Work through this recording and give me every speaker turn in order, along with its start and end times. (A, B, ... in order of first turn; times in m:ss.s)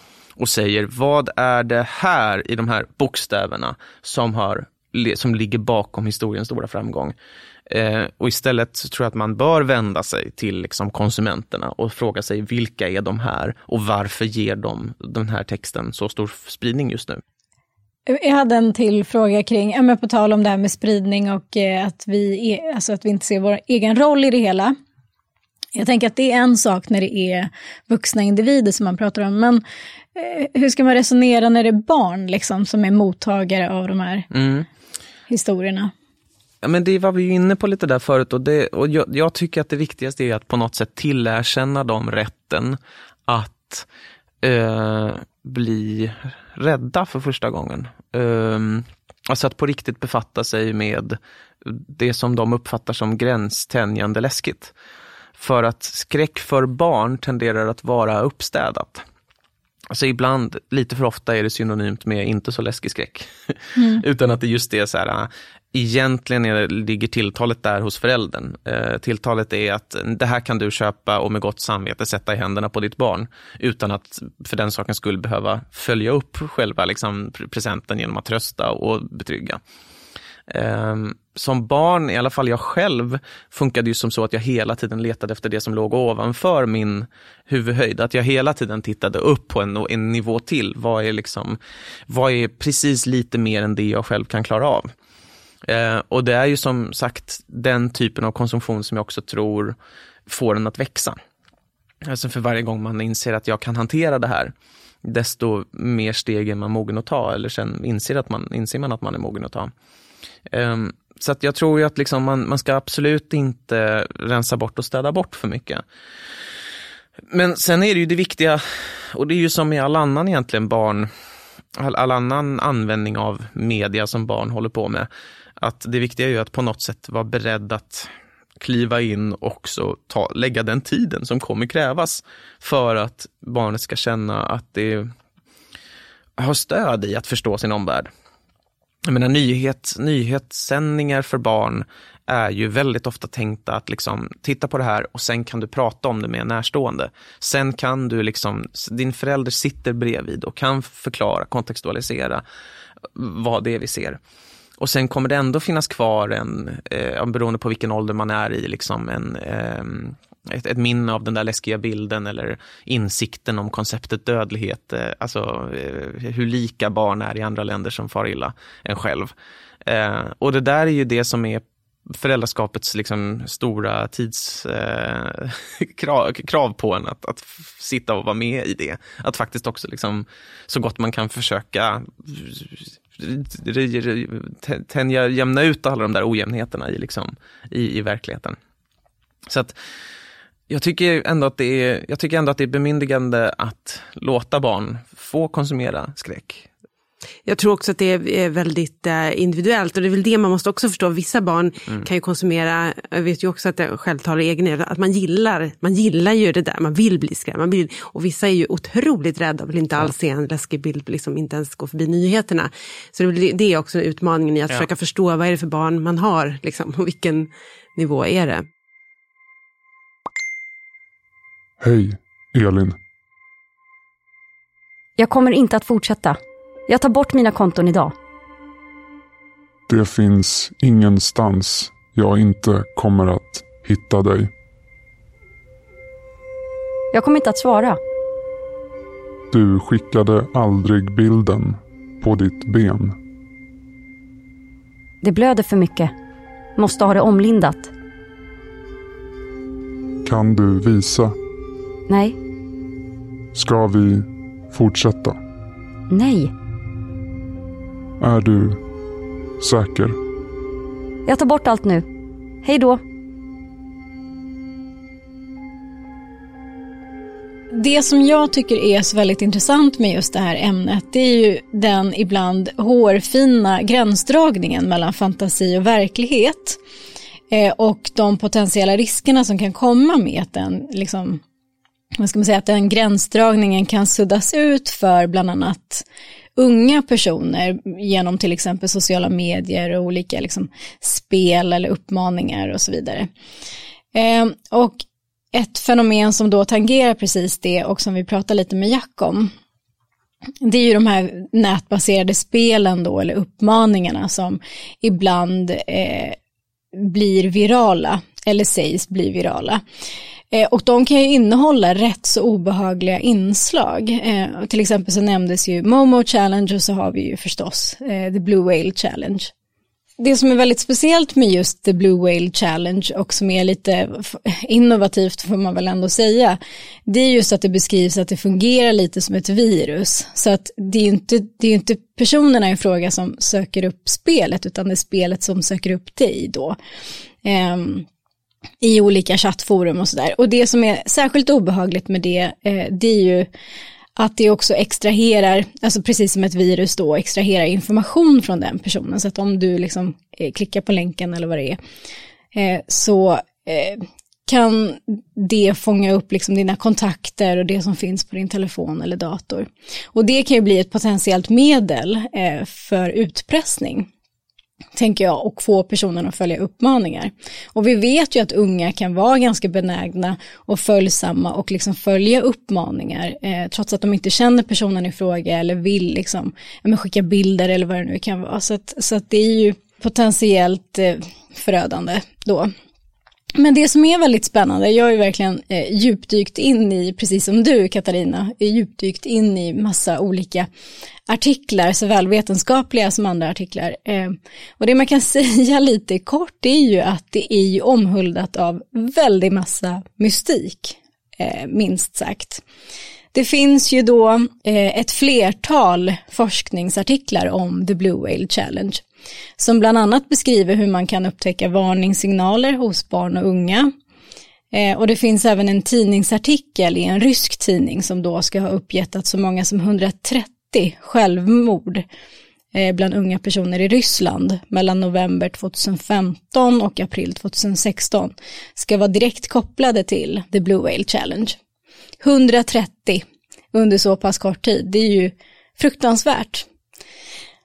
0:00.4-0:07.1 A
0:07.7-0:17.2 A
0:18.1-0:24.8 B
0:25.8-0:29.6 B
0:30.2-0:34.3 B
0:34.3-0:34.7 A
0:35.3-0:35.9 B
0:36.6-0:43.9 A
0:44.4-0:54.7 A
0:55.4-0:59.0 A
0:59.9-1:19.6 A
1:03.8-1:04.0 B
1:20.5-1:31.6 A
1:32.1-1:34.9 A
1:35.7-1:39.8 A
1:40.3-1:41.2 A
1:42.0-1:44.5 A
1:45.0-1:49.7 A
1:50.5-1:55.8 A
1:57.3-2:01.1 A
2:01.8-2:08.1 A
2:08.6-2:15.1 A
2:16.4-2:18.1 A
2:19.0-2:32.4 A
2:33.2-2:34.2 A
2:34.8-2:49.3 A
2:49.9-3:08.6 A
3:09.5-3:09.8 A
3:10.7-3:16.7 A
3:17.5-3:38.6 C
3:41.8-3:43.0 D
3:45.2-3:48.1 E
3:49.9-3:54.5 D
3:57.1-3:58.0 E
3:59.5-4:03.2 D
4:05.2-4:06.1 E
4:06.8-4:07.9 E
4:10.2-4:11.4 D
4:12.1-4:12.4 E
4:13.5-4:15.4 D
4:16.1-4:16.5 E
4:18.2-4:18.8 D
4:19.6-4:20.2 D
4:21.3-4:22.1 E
4:22.6-4:23.0 E
4:27.7-4:36.8 B
4:37.5-4:41.4 B
4:42.2-4:46.0 B
4:46.6-4:53.3 B
4:54.1-4:55.0 B
4:55.5-4:59.5 B
5:00.6-5:06.4 B
5:07.0-5:09.8 B
5:10.5-5:19.5 B
5:20.2-5:36.8 B
5:37.4-5:38.1 B
5:38.8-5:43.5 B
5:44.2-5:51.8 B
5:52.5-6:04.1 B
6:05.0-6:22.7 B
6:23.6-6:30.7 B
6:31.3-6:42.6 B
6:43.3-6:49.0 B
6:49.6-6:53.9 B
6:54.7-7:02.0 B
7:02.7-7:11.6 B
7:12.2-7:13.2 B
7:13.7-7:16.7 B